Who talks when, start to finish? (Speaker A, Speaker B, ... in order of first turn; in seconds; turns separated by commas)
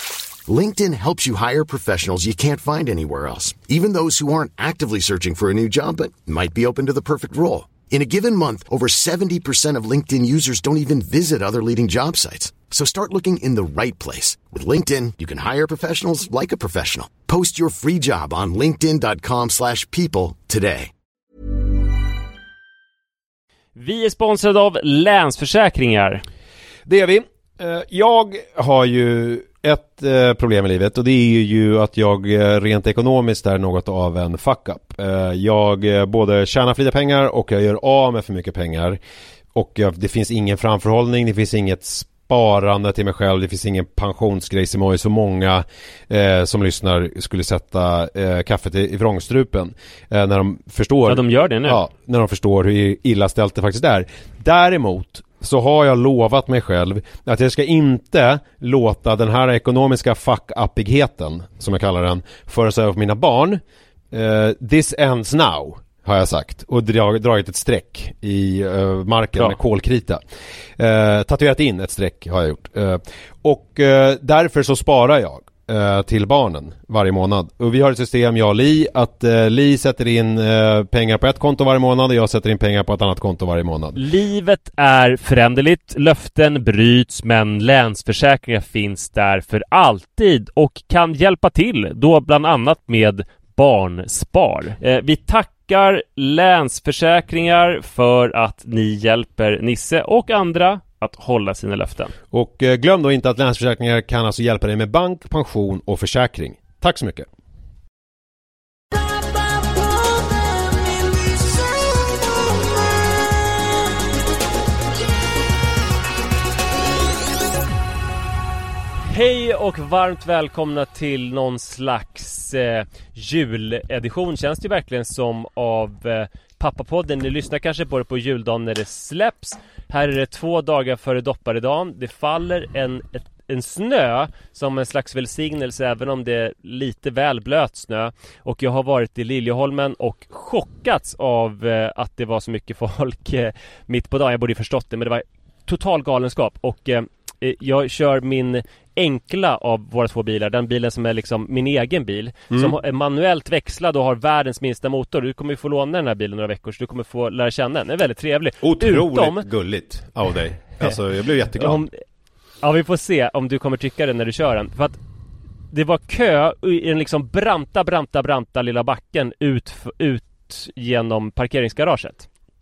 Speaker A: 0.5-20.9, Speaker B: 23.8-26.2, Speaker C: 26.9-39.0, Speaker C: 39.5-70.2, Speaker B: 51.1-51.8, Speaker C: 70.8-84.0, Speaker B: 83.9-102.1, Speaker C: 102.3-107.3, Speaker B: 119.0-159.4, Speaker C: 158.6-161.8, Speaker B: 161.6-161.9, Speaker B: 162.6-165.0, Speaker B: 165.7-172.3